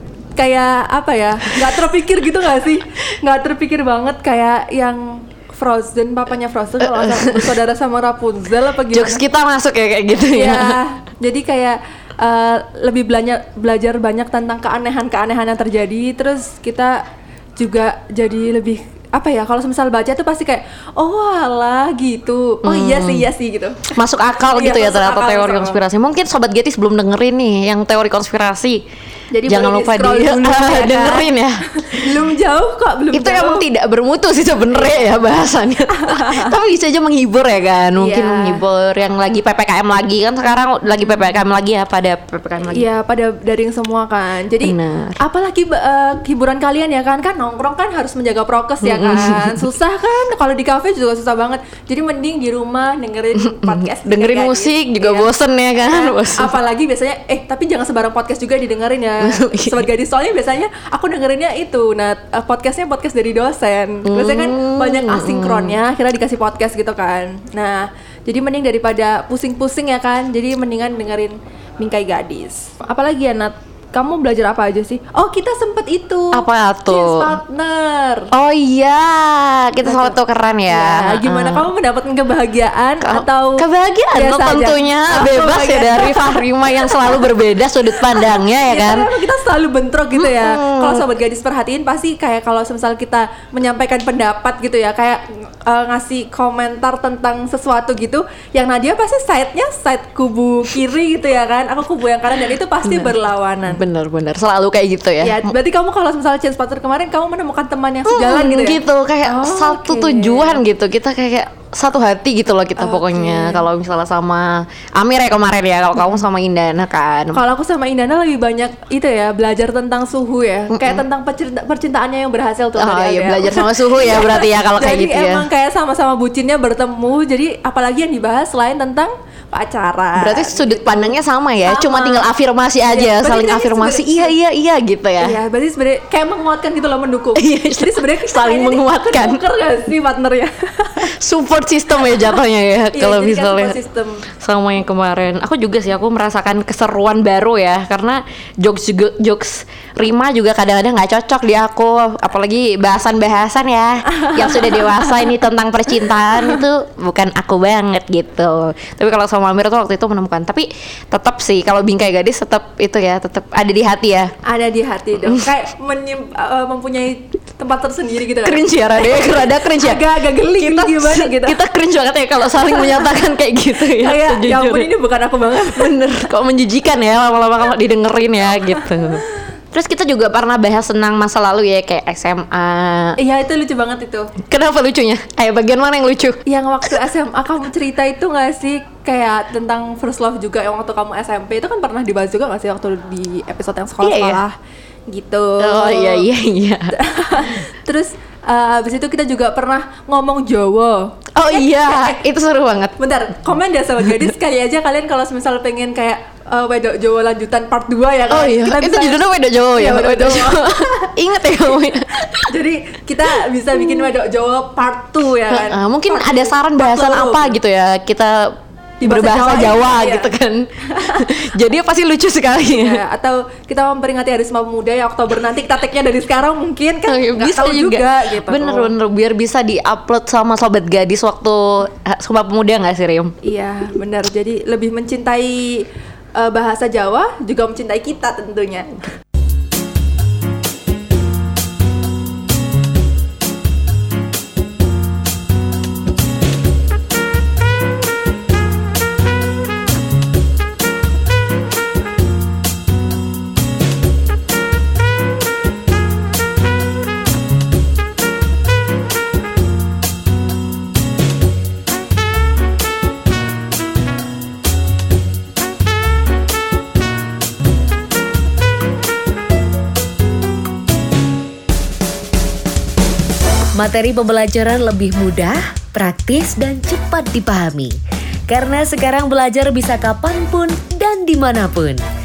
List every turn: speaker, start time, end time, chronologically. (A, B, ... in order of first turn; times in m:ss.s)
0:00.4-0:09.2 A
0:06.8-0:07.6 B
0:08.9-0:10.8 B
0:10.3-0:17.0 A
0:17.6-0:25.8 A
0:22.6-0:23.3 B
0:23.9-0:28.8 B
0:29.3-0:33.6 A
0:29.4-0:32.2 B
0:33.1-0:42.8 B
0:35.9-0:36.6 A
0:38.0-0:38.6 A
0:42.7-0:55.3 A
0:44.6-0:45.2 B
0:48.8-0:49.6 B
0:53.3-0:56.5 B
0:55.8-1:18.3 A
0:59.2-0:59.9 B
1:04.0-1:05.8 B
1:16.3-1:17.4 B
1:18.3-1:21.7 B
1:19.8-1:27.3 A
1:23.0-1:29.1 B
1:28.0-1:43.8 A
1:30.2-1:31.1 B
1:42.8-1:43.1 B
1:43.7-1:45.6 B
1:45.2-1:50.6 A
1:48.0-1:57.4 B
1:52.8-1:53.7 A
1:57.3-2:12.3 A
2:00.7-2:01.0 B
2:02.8-2:05.5 B
2:10.1-2:15.4 B
2:12.8-2:14.3 A
2:15.2-2:21.1 A
2:17.3-2:19.4 B
2:21.0-2:23.8 B
2:22.1-2:22.4 A
2:22.9-2:24.2 A
2:24.3-2:44.3 B
2:34.2-2:35.3 A
2:36.3-2:36.6 A
2:44.4-2:51.6 A
2:45.2-2:45.4 B
2:48.4-2:54.9 B
2:52.6-2:53.2 A
2:53.9-2:56.2 A
2:55.5-3:03.2 B
3:03.2-3:04.3 A
3:04.5-3:06.4 B
3:06.5-3:14.5 A
3:14.0-3:14.4 B
3:15.1-3:16.3 A
3:15.6-3:17.0 B
3:16.9-3:22.2 A
3:21.4-3:23.0 B
3:23.0-3:29.2 A
3:24.0-3:24.3 B
3:28.3-3:32.1 B
3:29.7-3:31.1 A
3:32.3-3:37.6 A
3:33.7-3:34.1 B
3:35.5-3:43.0 B
3:39.0-3:40.3 A
3:40.9-3:41.3 A
3:42.7-3:48.9 A
3:47.1-3:53.3 B
3:53.4-3:59.0 A
4:33.7-4:38.0 C
4:38.5-4:42.0 C